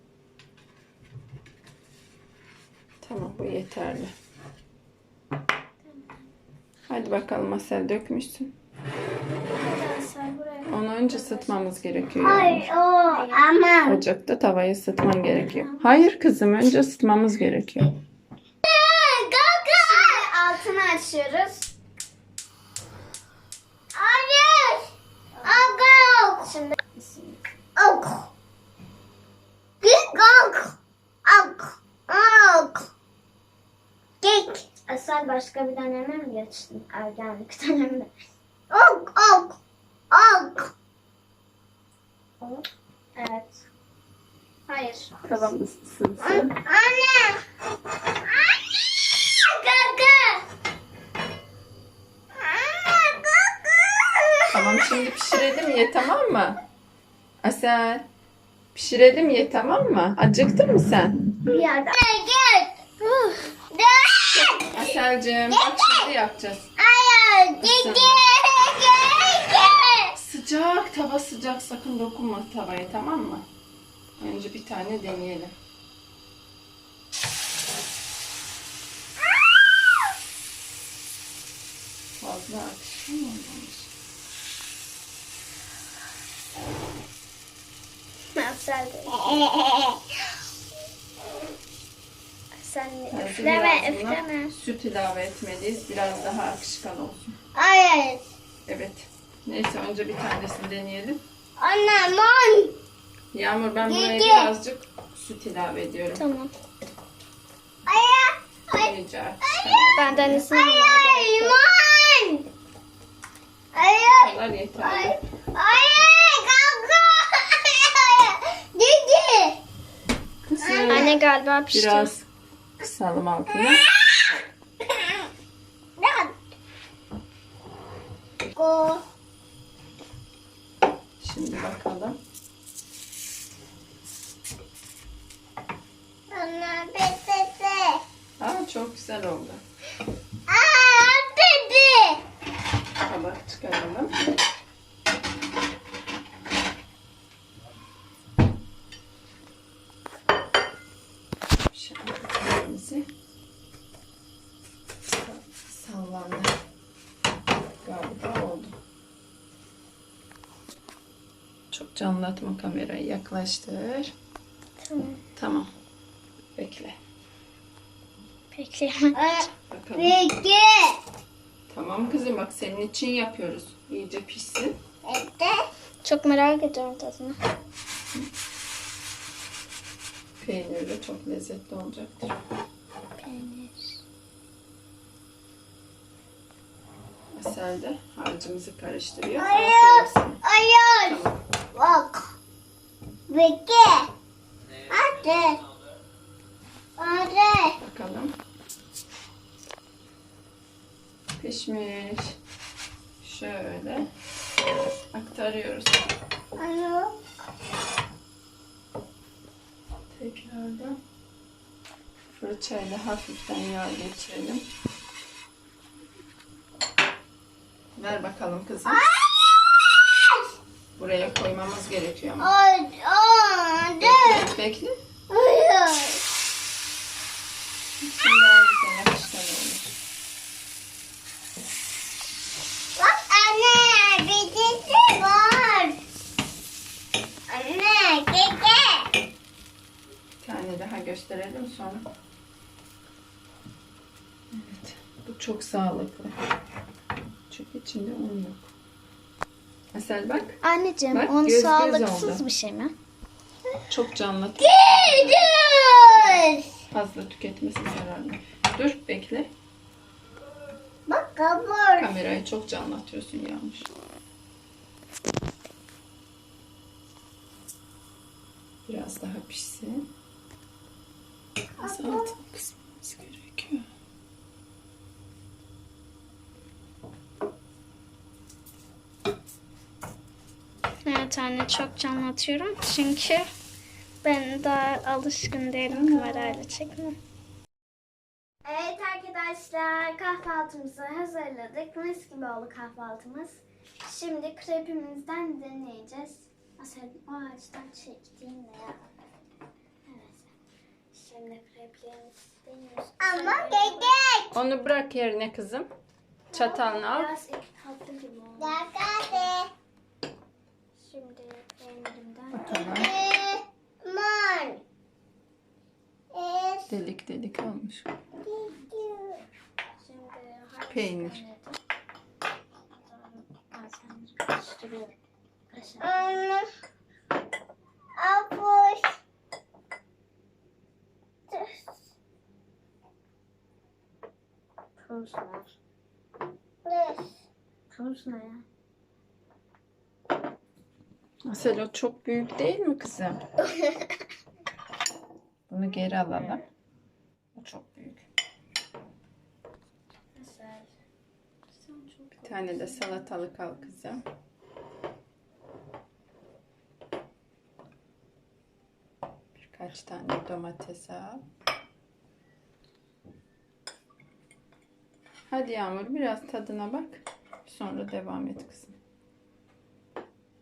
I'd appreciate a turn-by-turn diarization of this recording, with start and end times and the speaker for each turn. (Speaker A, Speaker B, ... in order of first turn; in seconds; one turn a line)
Speaker A: 3.0-4.1
Speaker B: 5.8-6.3
Speaker A: 6.9-8.5
Speaker B: 9.4-12.3
Speaker A: 10.7-12.7
Speaker C: 12.2-14.0
Speaker B: 13.1-13.4
Speaker A: 13.8-17.9
Speaker B: 15.4-16.1
Speaker C: 18.6-20.2
Speaker B: 19.8-21.7
Speaker C: 23.9-24.9
Speaker B: 25.3-25.8
Speaker C: 25.4-26.5
Speaker B: 26.4-27.4
Speaker C: 27.8-28.3
Speaker C: 29.8-32.9
Speaker C: 34.2-34.6
Speaker B: 34.9-38.1
Speaker C: 38.7-39.6
Speaker C: 40.1-40.7
Speaker B: 43.1-43.6
Speaker B: 44.7-45.5
Speaker A: 45.2-46.5
Speaker C: 46.2-47.4
Speaker C: 49.1-50.4
Speaker C: 52.4-54.6
Speaker A: 54.5-56.6
Speaker A: 57.4-58.1
Speaker A: 58.7-61.2
Speaker B: 61.5-62.0
Speaker C: 61.5-62.8
Speaker B: 63.0-63.5
Speaker C: 63.7-64.9
Speaker A: 64.7-66.7
Speaker C: 65.5-66.1
Speaker C: 66.8-70.1
Speaker A: 67.6-68.2
Speaker A: 70.1-73.4
Speaker A: 74.2-75.5
Speaker A: 82.2-83.9
Speaker B: 88.3-89.4
Speaker C: 89.1-90.0
Speaker B: 92.6-94.5
Speaker A: 93.1-97.3
Speaker C: 97.5-98.2
Speaker A: 98.7-101.2
Speaker C: 101.6-102.8
Speaker A: 103.3-106.2
Speaker C: 103.8-104.5
Speaker B: 106.1-106.5
Speaker C: 107.8-112.4
Speaker A: 108.7-110.4
Speaker B: 109.9-111.6
Speaker C: 113.7-119.6
Speaker A: 114.1-115.2
Speaker A: 120.5-121.1
Speaker C: 120.6-121.1
Speaker B: 120.9-122.1
Speaker A: 121.7-122.3
Speaker A: 122.8-123.8
Speaker C: 123.6-123.9
Speaker C: 124.9-125.2
Speaker C: 126.0-126.3
Speaker C: 128.6-129.0
Speaker A: 131.2-132.2
Speaker C: 136.3-138.0
Speaker A: 138.4-139.6
Speaker C: 140.5-142.2
Speaker A: 143.0-144.1
Speaker A: 151.7-153.1
Speaker A: 155.2-156.5
Speaker A: 157.8-158.8
Speaker A: 161.7-164.1
Speaker B: 164.8-165.2
Speaker A: 165.3-165.7
Speaker A: 166.6-167.0
Speaker B: 168.5-169.4
Speaker C: 169.1-171.0
Speaker A: 169.7-170.2
Speaker A: 171.7-174.8
Speaker C: 175.0-175.7
Speaker B: 176.0-177.4
Speaker A: 180.4-182.3
Speaker B: 183.2-184.0
Speaker A: 187.3-190.4
Speaker C: 189.3-192.3
Speaker A: 191.0-191.4
Speaker C: 193.3-194.1
Speaker C: 194.9-195.6
Speaker C: 197.0-197.8
Speaker A: 197.8-198.3
Speaker A: 201.4-202.4
Speaker A: 203.2-204.1
Speaker A: 205.1-206.1
Speaker C: 206.6-207.2
Speaker A: 210.1-211.0
Speaker A: 212.3-214.6
Speaker A: 217.9-219.0
Speaker C: 218.9-220.4
Speaker A: 221.0-222.5
Speaker C: 222.4-224.5
Speaker A: 224.0-224.9
Speaker C: 225.3-226.2
Speaker A: 228.0-229.9
Speaker C: 232.9-236.0
Speaker C: 237.5-239.1
Speaker A: 240.4-242.1
Speaker A: 244.5-246.3
Speaker A: 247.5-248.7
Speaker A: 249.9-250.6
Speaker B: 250.6-252.9
Speaker A: 251.1-252.4
Speaker A: 253.9-255.5
Speaker C: 254.6-256.7
Speaker A: 256.2-259.5
Speaker C: 261.1-262.1
Speaker A: 261.9-263.9
Speaker A: 268.9-270.1
Speaker C: 271.8-272.3
Speaker A: 271.8-273.9
Speaker B: 281.0-283.5
Speaker B: 284.2-287.1
Speaker A: 285.9-286.6
Speaker B: 288.6-299.0
Speaker B: 300.1-300.5
Speaker B: 301.1-304.1
Speaker C: 303.2-304.6
Speaker A: 304.5-305.9
Speaker B: 306.5-309.5
Speaker A: 306.5-307.3
Speaker C: 308.6-309.7
Speaker B: 311.0-312.9
Speaker A: 312.5-313.1
Speaker C: 312.9-314.8
Speaker C: 316.3-316.9
Speaker A: 316.9-318.1
Speaker C: 318.4-319.4
Speaker B: 320.0-321.8
Speaker A: 320.9-321.4
Speaker B: 322.9-325.1
Speaker B: 325.7-326.4
Speaker C: 326.0-326.7
Speaker C: 328.2-329.2
Speaker C: 331.5-331.8
Speaker B: 335.0-335.7
Speaker C: 336.8-337.3
Speaker B: 337.9-338.6
Speaker A: 341.4-343.4
Speaker A: 345.7-346.6
Speaker A: 347.5-348.2
Speaker B: 350.4-350.9
Speaker B: 351.7-354.0
Speaker A: 352.4-354.2
Speaker A: 359.6-361.4
Speaker A: 365.5-369.0